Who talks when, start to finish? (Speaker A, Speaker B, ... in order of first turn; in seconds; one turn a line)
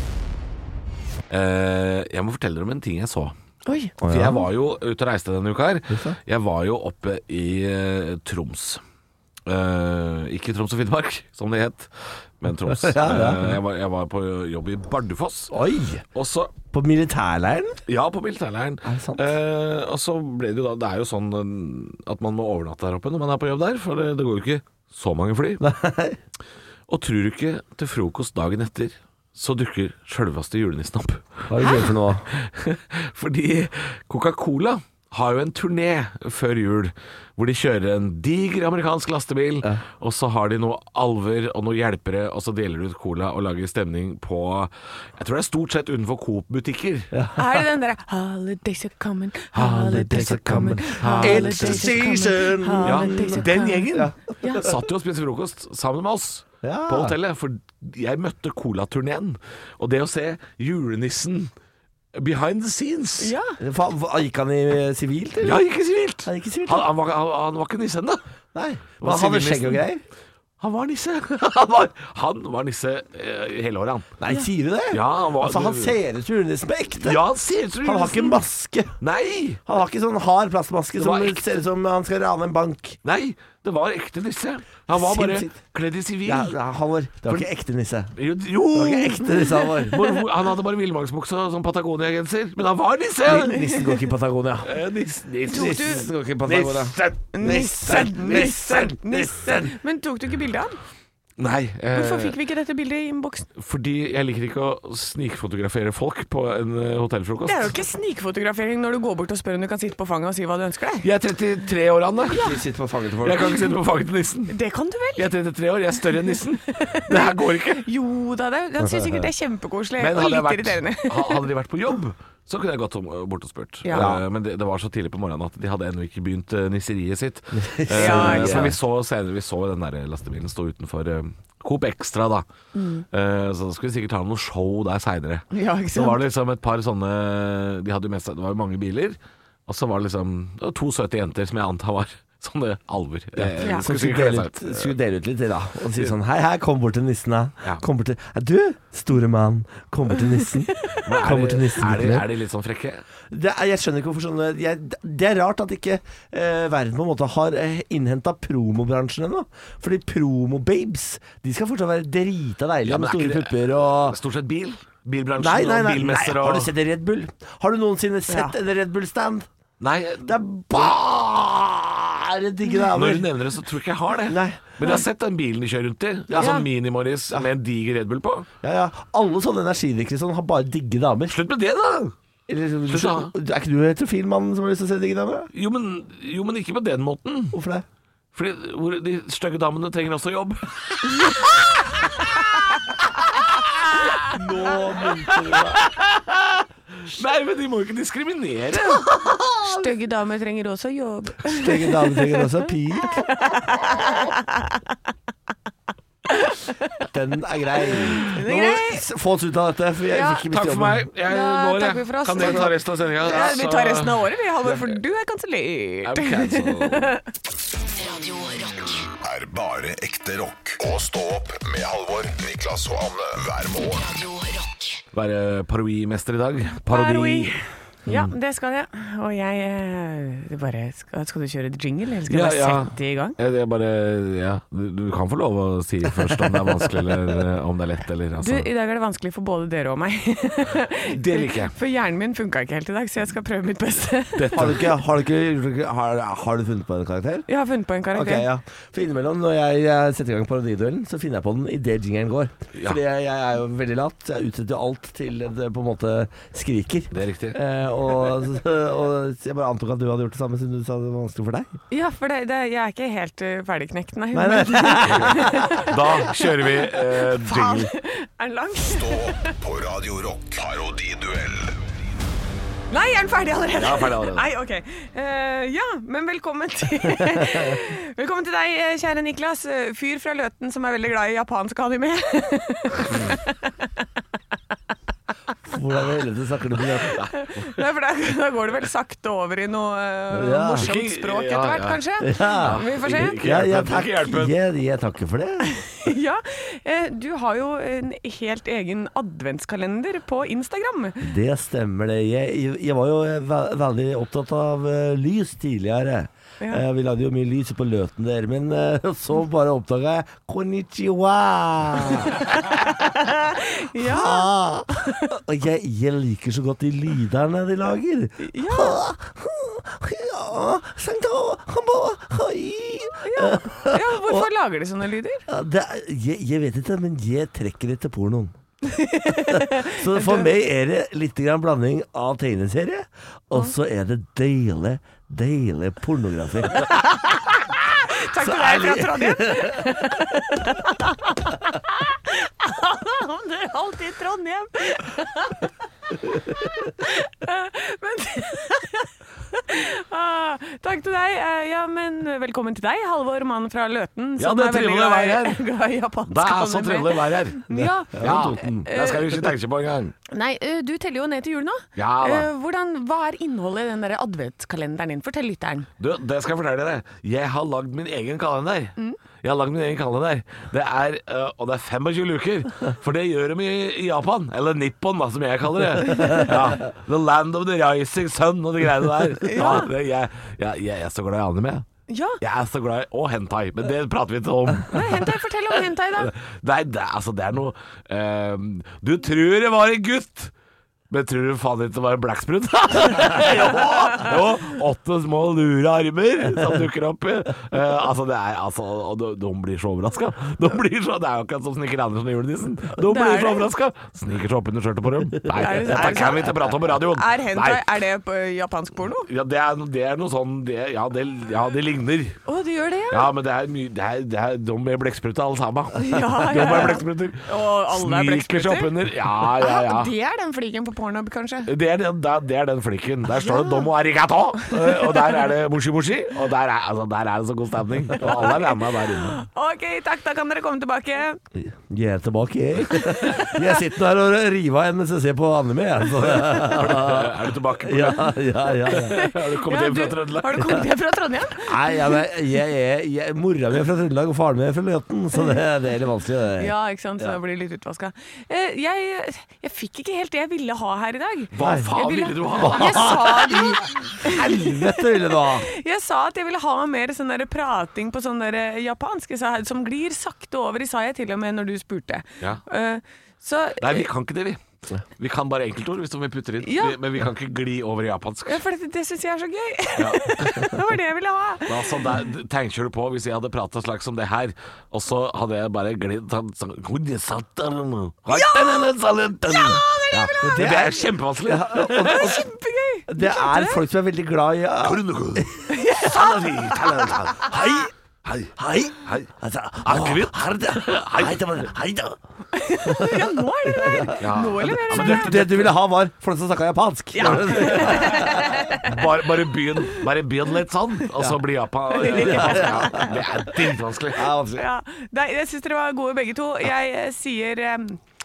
Speaker A: 1.3-3.3
Speaker B: 3.7-3.9
Speaker C: 4.0-4.5
Speaker A: 4.1-8.8
Speaker C: 5.9-6.2
Speaker A: 9.5-15.6
Speaker C: 12.7-13.6
Speaker C: 15.5-16.1
Speaker A: 16.1-16.6
Speaker C: 16.7-17.8
Speaker A: 17.9-25.6
Speaker C: 18.8-19.2
Speaker C: 25.6-26.2
Speaker A: 26.9-47.1
Speaker C: 31.5-32.3
Speaker C: 47.1-47.7
Speaker B: 47.4-54.7
Speaker A: 49.6-52.0
Speaker C: 49.6-54.7
Speaker A: 52.8-61.5
Speaker C: 56.6-57.2
Speaker A: 62.1-63.3
Speaker B: 63.2-63.6
Speaker C: 63.6-65.6
Speaker A: 65.4-68.2
Speaker C: 66.2-66.9
Speaker C: 68.5-70.0
Speaker A: 69.0-69.8
Speaker A: 70.6-74.2
Speaker C: 74.2-77.2
Speaker A: 74.9-76.0
Speaker A: 77.0-78.4
Speaker C: 77.8-79.0
Speaker A: 79.0-79.6
Speaker C: 79.7-83.0
Speaker A: 81.0-81.4
Speaker A: 83.0-86.6
Speaker C: 84.9-85.6
Speaker C: 86.2-90.1
Speaker A: 88.2-93.8
Speaker C: 93.2-94.7
Speaker A: 94.7-97.3
Speaker C: 95.5-99.7
Speaker B: 95.5-96.1
Speaker B: 97.3-100.8
Speaker A: 101.4-102.4
Speaker B: 101.9-103.5
Speaker A: 103.6-107.7
Speaker B: 107.5-111.1
Speaker A: 111.0-112.4
Speaker B: 112.3-112.6
Speaker C: 112.3-113.7
Speaker A: 113.2-114.5
Speaker B: 114.5-115.3
Speaker A: 115.2-117.9
Speaker B: 116.7-121.5
Speaker C: 118.8-119.3
Speaker A: 120.0-132.5
Speaker C: 123.9-124.2
Speaker C: 127.5-128.8
Speaker B: 127.9-128.7
Speaker B: 132.7-133.1
Speaker A: 133.1-144.9
Speaker B: 135.5-136.2
Speaker C: 143.4-152.3
Speaker A: 151.1-153.0
Speaker C: 153.3-164.2
Speaker A: 162.9-166.7
Speaker C: 165.4-169.5
Speaker B: 168.3-168.6
Speaker A: 169.8-170.9
Speaker C: 170.2-173.3
Speaker A: 172.9-178.5
Speaker C: 174.3-175.0
Speaker C: 176.3-176.7
Speaker B: 176.4-176.7
Speaker C: 178.6-181.4
Speaker A: 181.3-182.2
Speaker C: 182.5-185.5
Speaker A: 182.9-183.3
Speaker A: 185.5-187.6
Speaker C: 187.5-187.9
Speaker A: 188.3-192.2
Speaker A: 193.6-194.1
Speaker C: 194.3-195.9
Speaker A: 195.1-199.5
Speaker B: 199.6-202.5
Speaker C: 201.5-203.3
Speaker B: 203.1-204.8
Speaker B: 206.3-206.9
Speaker C: 207.1-211.1
Speaker B: 207.9-209.1
Speaker B: 210.1-210.5
Speaker A: 210.5-214.9
Speaker B: 211.2-217.2
Speaker C: 212.4-212.7
Speaker A: 216.0-217.2
Speaker D: 217.8-219.1
Speaker E: 219.2-224.1
Speaker D: 223.9-225.0
Speaker A: 225.1-227.6
Speaker B: 226.8-233.4
Speaker A: 228.1-228.3
Speaker A: 232.3-238.7
Speaker B: 238.4-244.8
Speaker A: 241.1-241.7
Speaker A: 244.4-244.9
Speaker C: 244.5-247.5
Speaker B: 247.5-248.5
Speaker C: 248.1-261.7
Speaker A: 257.1-257.6
Speaker B: 261.9-269.5
Speaker C: 264.3-265.8
Speaker A: 265.8-267.9
Speaker E: 268.8-271.8
Speaker B: 272.9-283.7
Speaker A: 273.7-274.5
Speaker C: 277.2-277.6
Speaker C: 285.7-287.2
Speaker B: 287.1-293.4
Speaker A: 287.1-287.7
Speaker C: 290.3-290.9
Speaker A: 290.7-294.6
Speaker C: 292.2-292.8
Speaker C: 293.4-295.7
Speaker B: 295.6-301.2
Speaker C: 301.2-312.4
Speaker B: 312.4-314.5
Speaker C: 313.9-324.5
Speaker B: 318.4-319.0
Speaker B: 323.2-325.4
Speaker C: 325.5-328.5
Speaker B: 328.8-330.5
Speaker C: 329.5-337.0
Speaker B: 336.8-345.7
Speaker C: 338.4-340.0
Speaker B: 346.6-359.4
Speaker A: 354.4-355.6
Speaker A: 356.3-360.1
Speaker C: 358.1-358.9
Speaker B: 360.3-365.9
Speaker A: 362.0-362.5
Speaker A: 366.0-381.9
Speaker B: 379.4-379.9
Speaker B: 382.1-382.4
Speaker A: 382.4-385.4
Speaker B: 384.9-386.3
Speaker A: 386.2-390.5
Speaker A: 391.1-407.8
Speaker B: 403.0-403.7
Speaker B: 405.5-409.3
Speaker C: 405.9-406.4
Speaker A: 409.3-412.4
Speaker B: 412.5-413.3
Speaker A: 413.1-420.1
Speaker B: 416.0-421.7
Speaker A: 421.7-429.4
Speaker B: 423.4-423.9
Speaker B: 424.7-425.2
Speaker B: 428.2-431.4
Speaker C: 431.6-439.2
Speaker B: 432.9-433.6
Speaker A: 436.2-440.8
Speaker B: 438.9-442.2
Speaker C: 441.7-447.4
Speaker B: 446.6-464.1
Speaker A: 451.5-453.4
Speaker C: 451.6-451.9
Speaker C: 452.5-455.7
Speaker A: 463.8-464.6
Speaker A: 465.2-468.6
Speaker B: 466.6-467.0
Speaker B: 468.5-472.0
Speaker A: 470.0-470.4
Speaker A: 471.7-482.3
Speaker B: 478.3-478.9
Speaker B: 479.5-480.4
Speaker C: 480.4-482.4
Speaker B: 482.0-483.8
Speaker C: 483.1-485.7
Speaker A: 484.8-487.5
Speaker B: 485.7-487.8
Speaker C: 487.1-487.9
Speaker A: 488.3-489.3
Speaker C: 488.5-492.2
Speaker A: 489.8-491.6
Speaker B: 492.5-495.4
Speaker C: 492.8-494.2
Speaker A: 494.2-495.7
Speaker C: 494.9-498.6
Speaker B: 497.1-499.1
Speaker A: 497.2-498.3
Speaker A: 498.8-504.3
Speaker B: 501.9-503.5
Speaker C: 502.0-503.2
Speaker C: 504.1-504.6
Speaker B: 504.6-508.0